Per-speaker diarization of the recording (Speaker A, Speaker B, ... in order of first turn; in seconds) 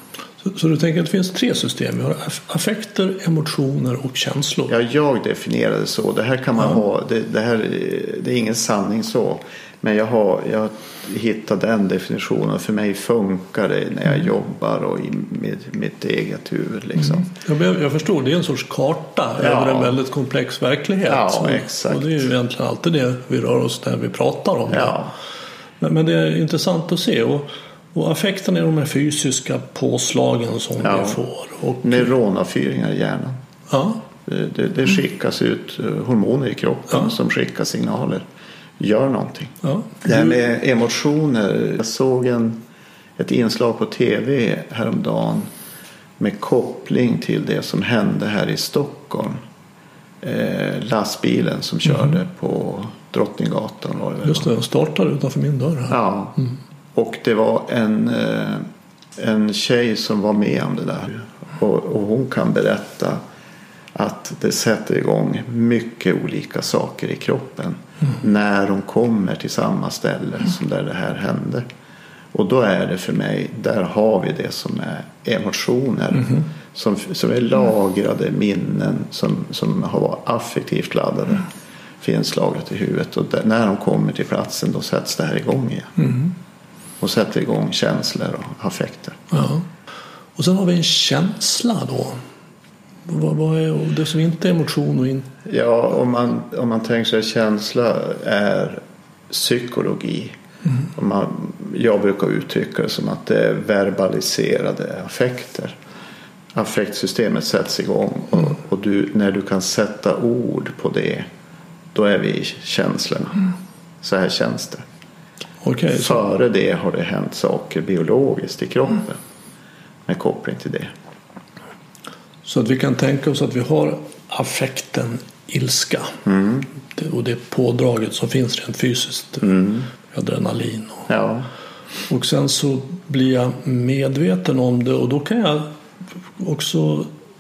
Speaker A: 0.4-4.7, 17.0-25.1, 25.8-32.1, 33.7-34.0, 39.6-40.4, 54.2-56.0, 86.0-86.3, 89.3-89.7, 90.4-92.2, 93.1-95.3, 115.6-116.2, 122.5-126.2, 126.9-131.1, 132.1-135.7, 136.4-137.1
Speaker B: 4.7-17.3, 19.4-20.0, 21.1-22.3, 24.7-25.1, 30.8-31.2, 31.8-33.4, 34.2-38.2, 38.8-42.6, 43.2-45.5, 46.2-49.4, 50.2-54.5, 55.9-56.4, 56.9-58.6, 59.2-63.2, 64.0-71.7, 72.3-81.5, 82.0-85.9, 87.0-89.2, 95.5-100.3, 101.0-105.8, 106.5-111.3, 111.9-113.4, 114.0-114.8, 115.9-119.2, 120.1-120.9, 126.2-126.7, 129.4-129.9, 131.1-131.5